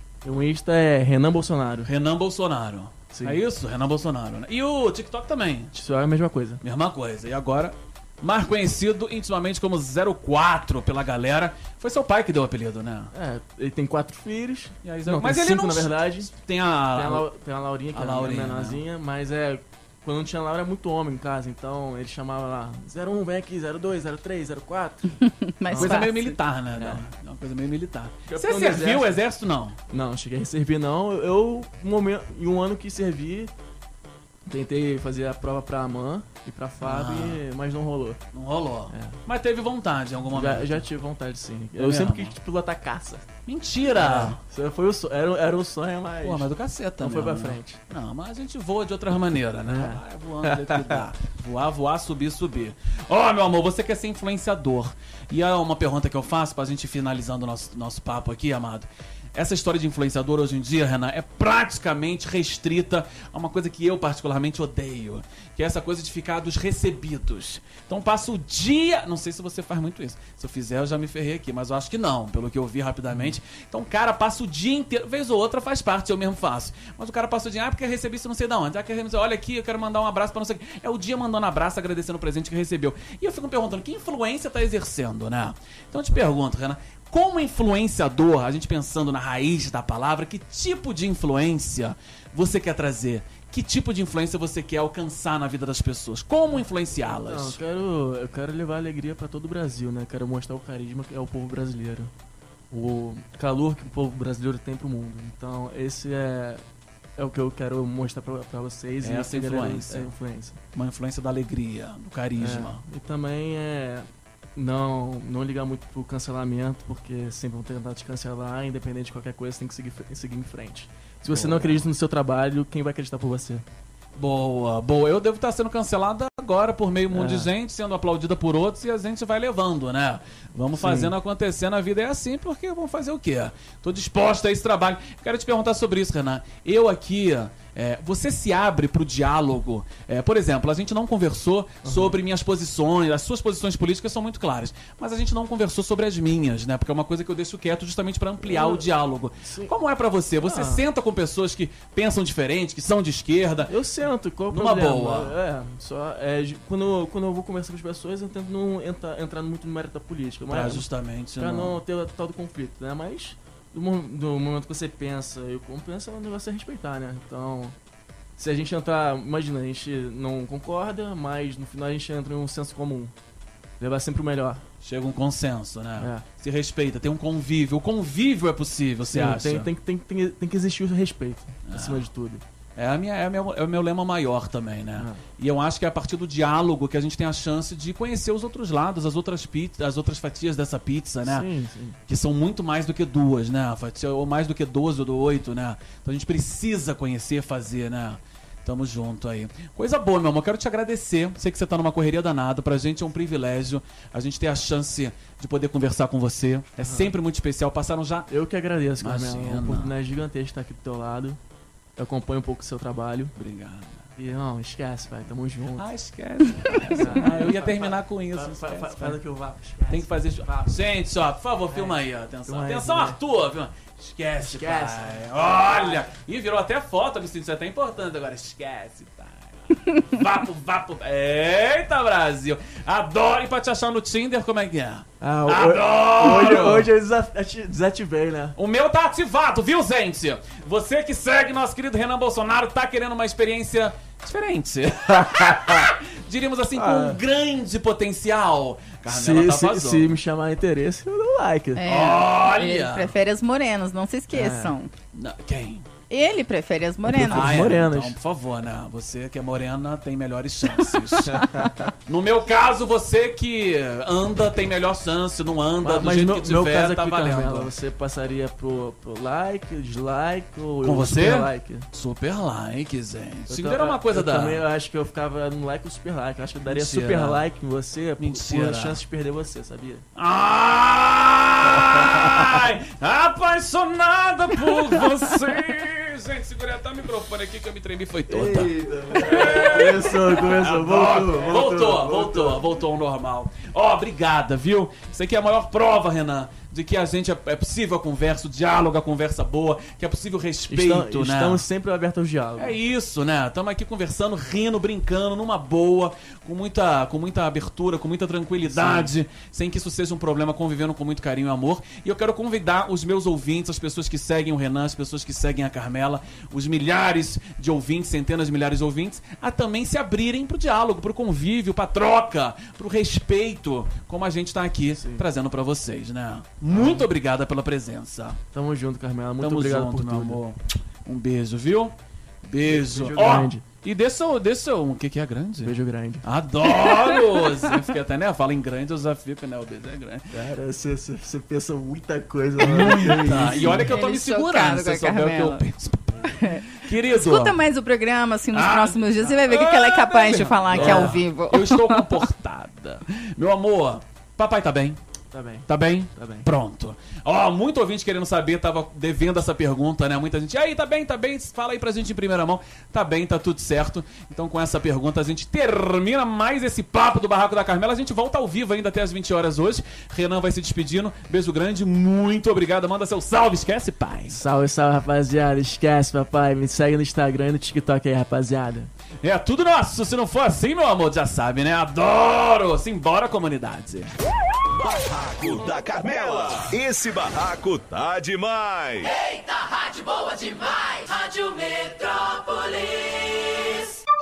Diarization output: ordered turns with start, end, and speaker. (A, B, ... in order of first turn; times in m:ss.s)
0:00.2-0:01.9 A
0:01.8-0:05.7 B
0:03.1-0:03.4 A
0:05.7-0:06.6 A
0:06.6-0:13.1 B
0:13.1-0:16.3 A
0:14.8-0:17.2 B
0:16.9-0:25.2 A
0:17.9-0:18.8 B
0:25.2-0:26.4 C
0:25.7-0:26.1 A
0:25.8-0:29.8 B
0:26.8-0:27.0 A
0:28.3-0:29.2 A
0:29.9-0:33.5 A
0:34.5-0:38.2 A
0:36.8-0:37.4 B
0:38.3-0:40.8 B
0:38.9-0:39.2 A
0:40.3-0:43.2 A
0:41.8-0:42.4 B
0:43.4-0:44.4 B
0:43.9-0:46.5 A
0:46.2-1:37.6 B
0:47.0-0:47.8 A
0:49.7-0:51.0 A
1:37.1-1:42.1 A
1:42.7-1:46.6 A
1:47.2-1:50.6 A
1:49.0-1:50.1 B
1:50.7-1:52.8 B
1:52.4-2:03.6 A
2:01.3-2:01.9 B
2:04.2-2:33.7 B
2:07.1-2:07.5 A
2:10.7-2:11.1 A
2:21.8-2:22.2 A
2:28.4-2:28.9 A
2:29.4-2:29.7 A
2:30.4-2:30.8 A
2:33.7-2:40.8 A
2:34.5-2:35.4 B
2:40.5-2:41.8 B
2:41.4-2:47.7 A
2:48.4-2:53.1 A
2:53.8-2:54.6 A
2:54.8-2:59.7 B
2:56.0-2:56.2 A
2:59.1-3:02.4 A
3:01.6-3:02.1 B
3:02.8-3:11.5 B
3:05.0-3:05.2 A
3:11.2-3:12.0 A
3:12.1-3:28.3 B
3:26.8-3:27.1 A
3:28.3-3:31.4 A
3:29.0-3:29.9 B
3:32.0-3:33.3 A
3:33.4-3:34.1 B
3:34.2-3:35.9 A
3:35.8-3:39.2 B
3:36.9-3:40.8 A
3:39.9-3:56.9 B
3:41.7-3:43.2 A
3:44.4-3:46.1 A
3:55.2-3:58.6 A
3:58.6-4:10.1 B
4:05.1-4:05.9 A
4:06.7-4:07.2 A
4:09.1-4:11.8 A
4:11.8-4:14.9 C
4:11.8-4:13.1 B
4:14.3-4:14.7 A
4:15.1-4:15.9 B
4:16.1-4:17.6 C
4:17.1-4:18.1 A
4:17.2-4:21.5 B
4:21.3-4:21.9 A
4:22.0-4:27.7 B
4:25.8-4:31.9 A
4:30.8-4:34.6 B
4:33.5-4:40.0 A
4:36.6-4:37.4 B
4:38.2-4:39.0 B
4:40.1-5:01.6 B
4:41.8-4:42.5 A
4:48.3-4:52.6 A
5:00.7-5:02.8 A
5:02.6-5:28.4 B
5:08.6-5:09.1 A
5:24.9-5:25.2 A
5:26.7-5:27.0 A
5:28.5-5:30.4 A
5:29.4-5:40.3 B
5:32.6-5:33.6 A
5:35.6-5:36.2 A
5:36.8-5:37.2 C
5:40.3-5:43.9 A
5:42.6-5:47.6 B
5:43.1-5:45.6 C
5:46.3-5:52.2 C
5:48.5-5:55.0 B
5:50.7-5:51.2 A
5:55.3-5:56.5 A
5:55.7-6:14.4 B
6:14.3-6:18.9 A
6:19.2-6:24.1 B
6:24.7-6:29.1 D
6:29.1-6:34.0 E